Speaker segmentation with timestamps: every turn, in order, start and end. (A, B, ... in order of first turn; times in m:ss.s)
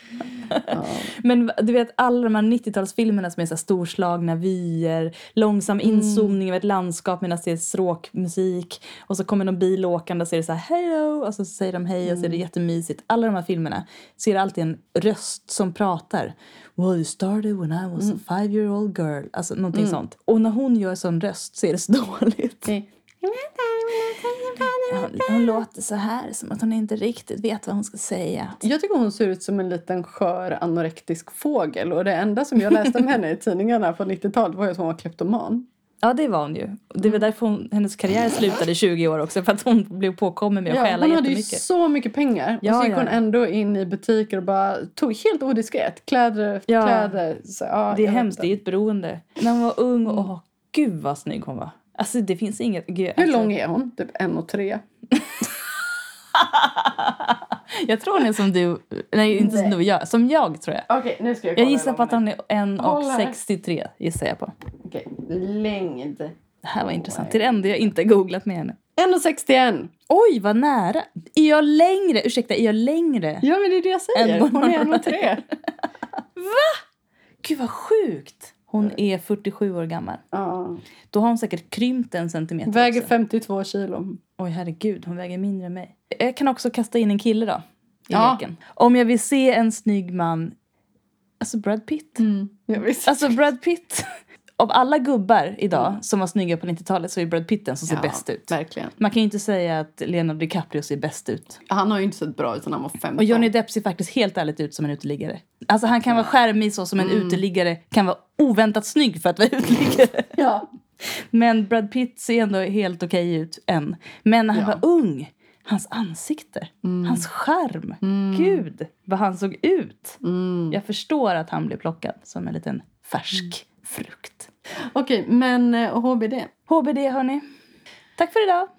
0:00.5-0:22.7 A
0:00.7-0:01.1 B
0:05.8-0:06.4 B
0:12.0-0:12.4 B
0:19.7-0:20.0 B
0:22.7-0:25.6 B
0:24.9-0:28.6 A
0:28.6-0:35.6 B
0:36.0-0:41.6 A
0:40.7-0:48.5 B
0:42.6-0:43.2 A
0:46.7-0:47.2 A
0:47.9-0:53.5 A
0:53.2-0:54.8 B
0:56.3-1:00.9 A
0:59.3-0:59.8 B
1:00.9-1:02.2 B
1:01.6-1:04.5 A
1:02.8-1:03.4 B
1:04.8-1:07.8 B
1:06.6-1:08.8 A
1:09.0-1:09.9 B
1:10.1-1:13.4 A
1:13.4-1:15.4 B
1:14.1-1:15.5 A
1:16.4-1:16.8 A
1:17.4-1:20.2 A
1:20.3-1:20.8 B
1:21.1-1:23.1 A
1:22.7-1:24.2 B
1:24.4-1:30.5 A
1:28.1-1:28.4 B
1:31.4-1:32.2 A
1:32.2-1:33.4 B
1:33.0-1:34.1 A
1:34.6-1:41.6 A
1:37.9-1:39.0 B
1:41.7-1:43.5 B
1:43.2-1:50.4 A
1:47.0-1:47.4 B
1:50.4-1:50.7 B
1:51.0-2:00.2 A
1:54.5-1:54.8 B
1:56.8-1:57.2 B
1:58.0-1:58.6 B
2:00.2-2:00.8 B
2:00.7-2:04.5 A
2:04.8-2:06.5 B
2:06.7-2:07.4 A
2:08.2-2:08.7 A